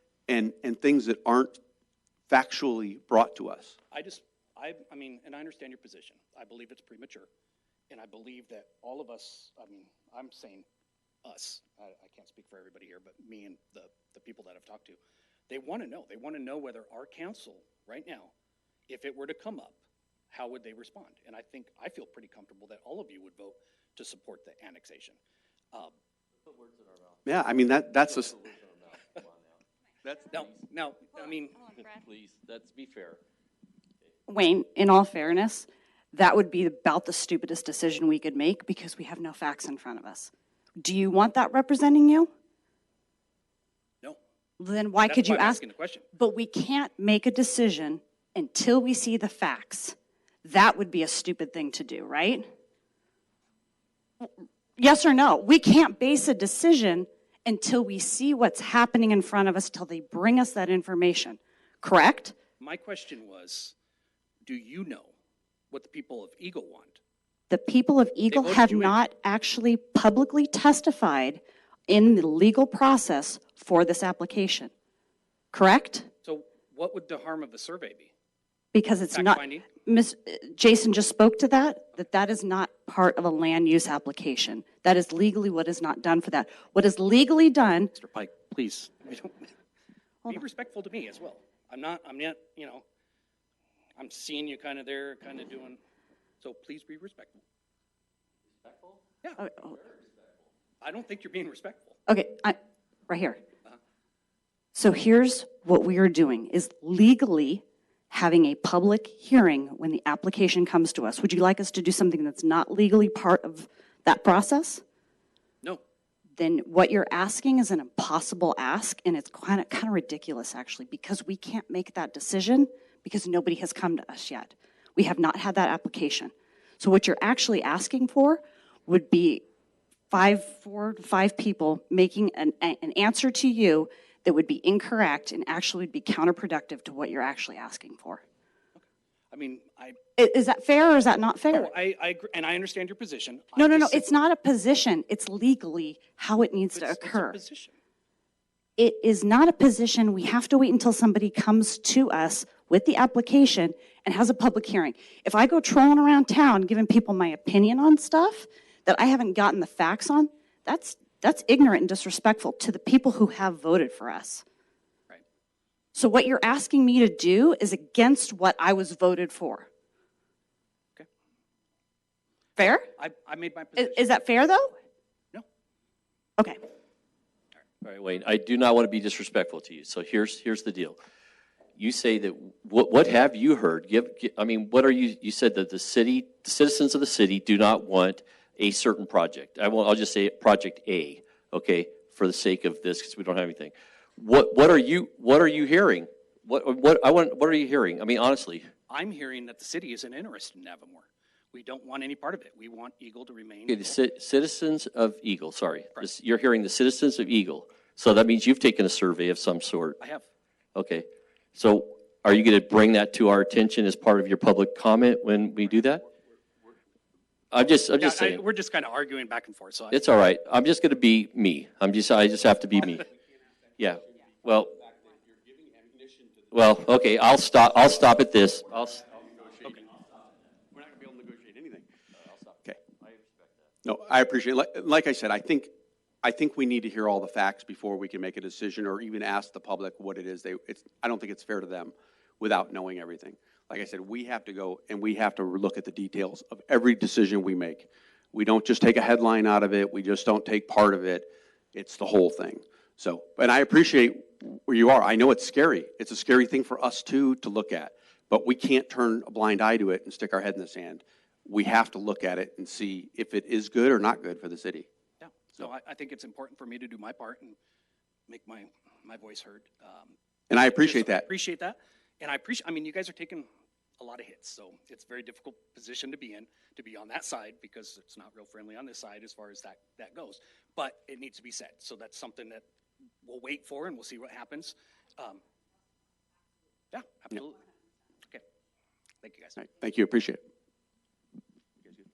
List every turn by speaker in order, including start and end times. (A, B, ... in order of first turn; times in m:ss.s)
0:00.3-0:01.6 A
0:02.3-0:03.8 A
0:03.9-0:07.3 B
0:07.9-0:10.6 B
0:11.2-0:18.3 B
0:18.9-0:25.2 B
0:26.4-0:29.6 C
0:27.2-0:28.4 A
0:30.1-0:30.6 C
0:30.3-0:31.7 B
0:31.8-0:33.2 C
0:34.3-0:42.3 D
0:44.6-0:45.6 D
0:45.0-0:46.0 B
0:46.1-0:52.5 D
0:54.2-1:02.3 D
1:02.6-1:03.7 B
1:04.4-1:05.1 B
1:05.7-1:07.0 B
1:07.5-1:14.7 D
1:08.3-1:09.0 B
1:15.5-1:16.1 D
1:16.2-1:18.1 B
1:18.7-1:27.9 D
1:19.1-1:19.7 B
1:28.0-1:29.5 B
1:30.3-1:32.8 B
1:34.0-1:35.8 B
1:36.4-1:37.4 B
1:38.5-1:39.0 C
1:39.4-1:39.8 D
1:39.6-1:40.5 C
1:40.8-1:42.0 B
1:42.1-1:42.6 D
1:43.1-1:43.4 D
1:44.7-1:54.8 D
1:56.4-2:09.4 D
2:10.1-2:18.2 D
2:18.8-2:20.0 B
2:20.2-2:21.7 D
2:21.5-2:24.1 B
2:23.6-2:27.4 D
2:26.7-2:27.8 B
2:28.8-2:44.4 D
2:45.9-2:49.7 D
2:52.6-2:52.9 D
2:52.6-2:54.1 B
2:53.8-2:54.7 D
2:57.8-3:01.0 C
3:01.8-3:18.7 C
3:18.9-3:24.0 B
3:23.7-3:30.0 C
3:30.0-3:30.2 B
3:30.7-3:36.0 C
3:37.5-3:38.4 C
3:38.0-3:40.0 B
3:39.9-3:43.0 C
3:43.8-3:44.7 C
3:44.8-3:46.5 A
3:46.5-3:49.3 C
3:50.7-3:51.8 A
3:52.1-3:53.7 C
3:53.8-3:55.7 A
3:56.2-4:24.9 A
4:25.2-4:27.6 B
4:28.3-4:30.1 B
4:30.5-4:31.3 A
4:30.7-4:33.5 B
4:34.0-4:42.6 B
4:43.2-4:45.4 B
4:46.9-4:47.6 B
4:49.2-4:49.7 B
4:49.6-4:50.4 A